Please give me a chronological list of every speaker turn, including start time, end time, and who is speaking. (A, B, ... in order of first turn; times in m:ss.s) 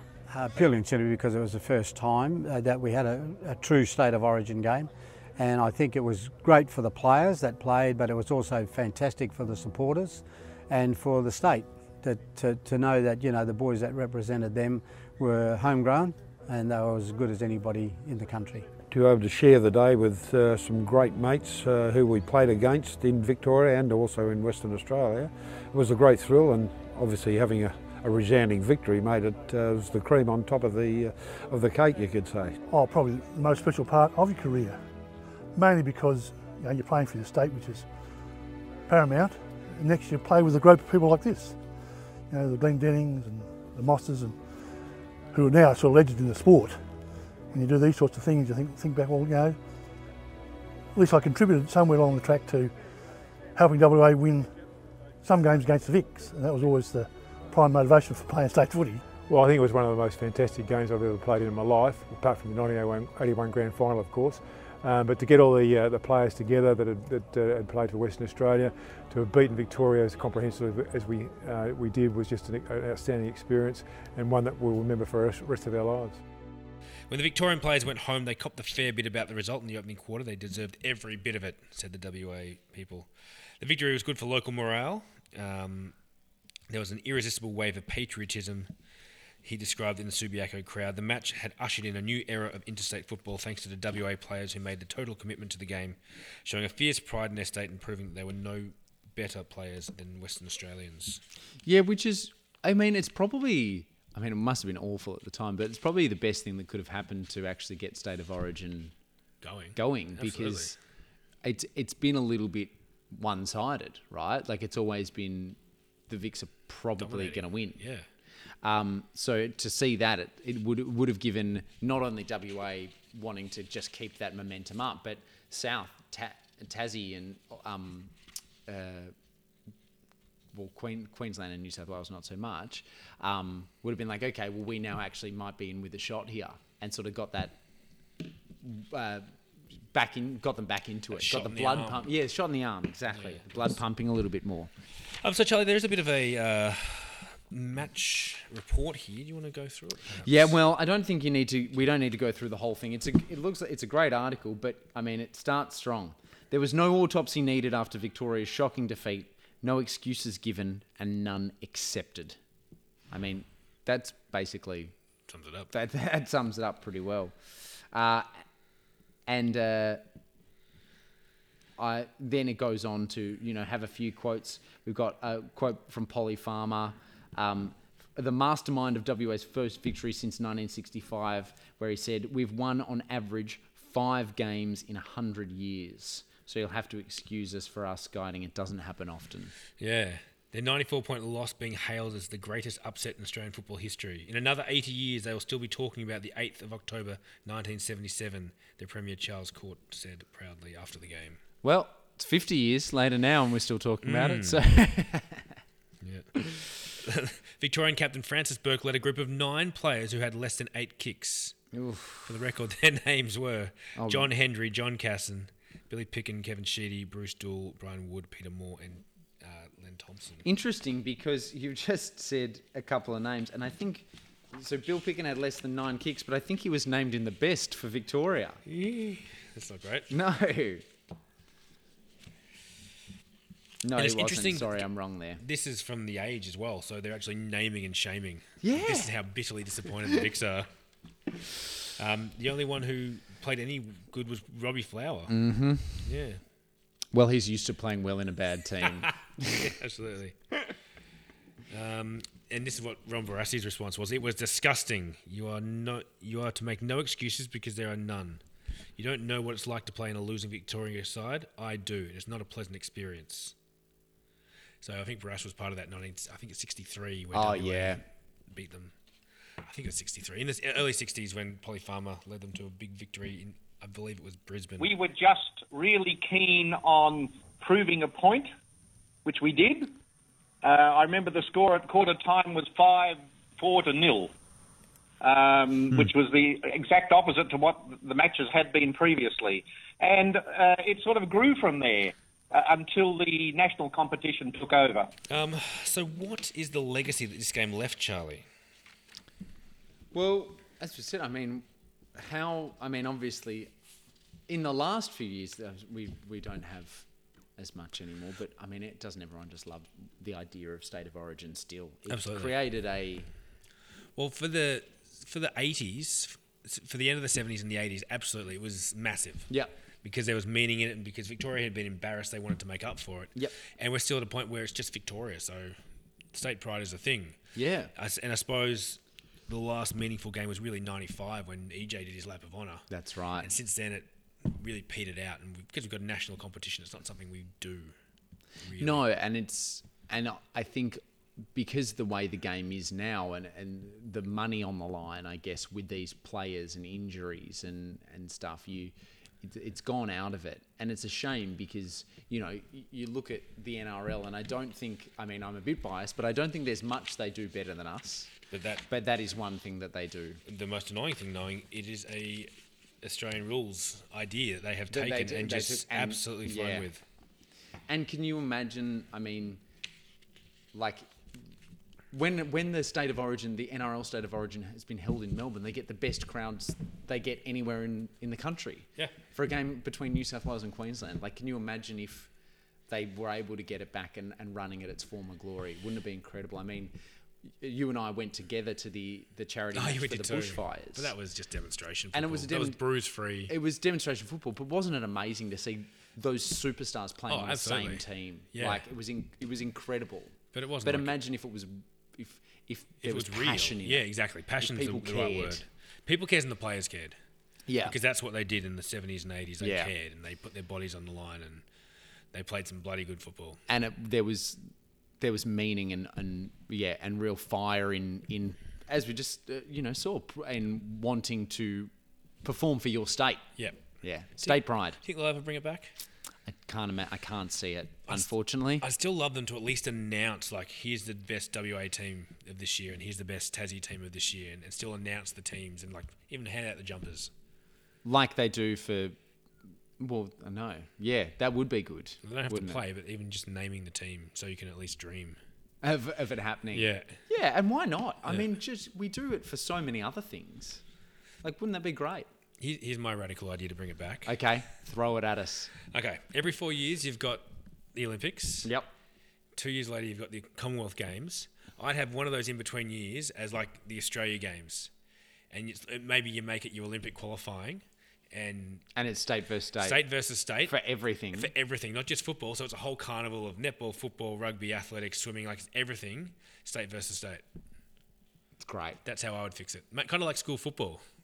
0:00.3-0:18.7 A
0:18.9-0:32.6 B
0:32.7-0:34.8 C
0:35.6-0:37.9 C
0:38.9-0:41.6 C
0:42.3-0:44.4 C
0:45.3-0:46.8 C
0:47.5-0:49.6 C
0:51.0-0:52.7 C
0:53.6-0:54.5 C
0:55.2-0:59.0 C
0:59.3-1:16.2 D
1:17.1-1:23.1 E
1:23.6-1:25.9 E
1:26.7-1:28.7 E
1:29.4-1:41.2 E
1:41.6-1:48.9 F
1:49.4-1:50.8 E
1:49.8-1:50.8 F
1:51.4-1:55.6 F
1:56.1-1:57.8 F
1:57.0-1:58.1 E
1:58.6-2:08.1 F
2:08.7-2:09.1 F
2:10.5-2:17.6 F
2:18.6-2:19.3 F
2:19.9-2:24.7 F
2:21.2-2:22.0 E
2:23.2-2:23.6 E
2:25.2-2:30.5 E
2:30.2-2:42.4 F
2:43.1-2:44.9 F
2:45.3-2:45.7 E
2:45.7-2:47.4 F
2:47.9-2:48.3 F
2:49.3-2:50.0 F
2:51.8-3:09.5 F
3:09.8-3:21.4 E
3:21.6-3:25.5 F
3:24.0-3:24.6 E
3:26.0-3:31.6 E
3:31.7-3:32.3 F
3:32.2-3:40.4 E
3:34.0-3:34.3 F
3:40.4-3:48.6 F
3:48.7-3:50.1 E
3:50.1-3:50.9 F
3:53.8-3:55.4 F
3:53.9-3:54.9 E
3:55.4-4:00.7 E
3:58.6-3:59.1 F
4:02.0-4:05.4 E
4:05.3-4:06.0 F
4:06.0-4:06.4 E
4:07.1-4:09.5 F
4:08.8-4:10.4 E
4:11.7-4:18.4 E
4:19.0-4:23.5 E
4:24.8-4:28.9 E
4:27.3-4:28.0 F
4:29.6-4:34.9 E
4:34.8-4:38.5 G
4:39.2-4:39.9 G
4:40.6-4:44.3 G
4:45.2-4:55.1 G
4:55.3-4:58.5 E
5:00.1-5:03.7 F
5:04.5-5:07.1 F
5:07.6-5:13.3 F
5:12.1-5:12.6 E
5:14.2-5:19.5 E
5:20.0-5:25.8 E
5:26.3-5:27.4 E
5:27.6-5:27.9 F
5:28.0-5:32.9 E
5:32.9-5:33.5 F
5:33.4-5:37.9 E
5:38.6-5:39.0 E
5:38.8-5:41.0 F
5:41.5-5:58.3 F
5:58.5-5:58.9 E
5:58.9-6:00.4 F
6:00.5-6:02.5 E
6:03.0-6:07.0 E
6:04.9-6:06.9 F
6:07.9-6:09.6 F
6:10.7-6:11.1 F
6:12.1-6:22.3 F
6:22.9-6:26.9 F
6:27.6-6:31.1 F
6:29.7-6:33.5 E
6:32.1-6:32.8 F
6:33.5-6:44.1 F
6:37.3-6:38.8 E
6:40.5-6:41.1 E
6:43.0-6:47.2 E
6:44.6-6:45.6 F
6:47.7-6:48.0 F
6:47.8-6:51.6 E
6:49.6-6:49.9 F
6:52.3-6:53.6 E
6:53.7-6:54.6 F
6:55.2-7:01.9 F
7:02.4-7:03.5 F
7:03.6-7:03.8 E
7:04.0-7:05.0 F
7:04.4-7:05.9 E
7:06.5-7:08.8 F
7:08.8-7:17.3 E
7:18.0-7:19.2 F
7:20.0-7:22.8 F
7:22.2-7:25.4 E
7:25.8-7:30.8 F
7:26.7-7:27.2 E
7:31.4-7:32.3 F
7:32.6-7:34.4 E
7:34.3-7:35.7 F
7:35.9-7:38.7 E
7:39.6-7:44.9 E
7:45.5-7:48.8 E
7:49.0-7:50.0 F
7:49.8-7:50.8 E
7:50.6-7:51.5 F
7:51.4-7:57.4 E
7:58.6-7:59.0 F
7:59.0-8:01.0 E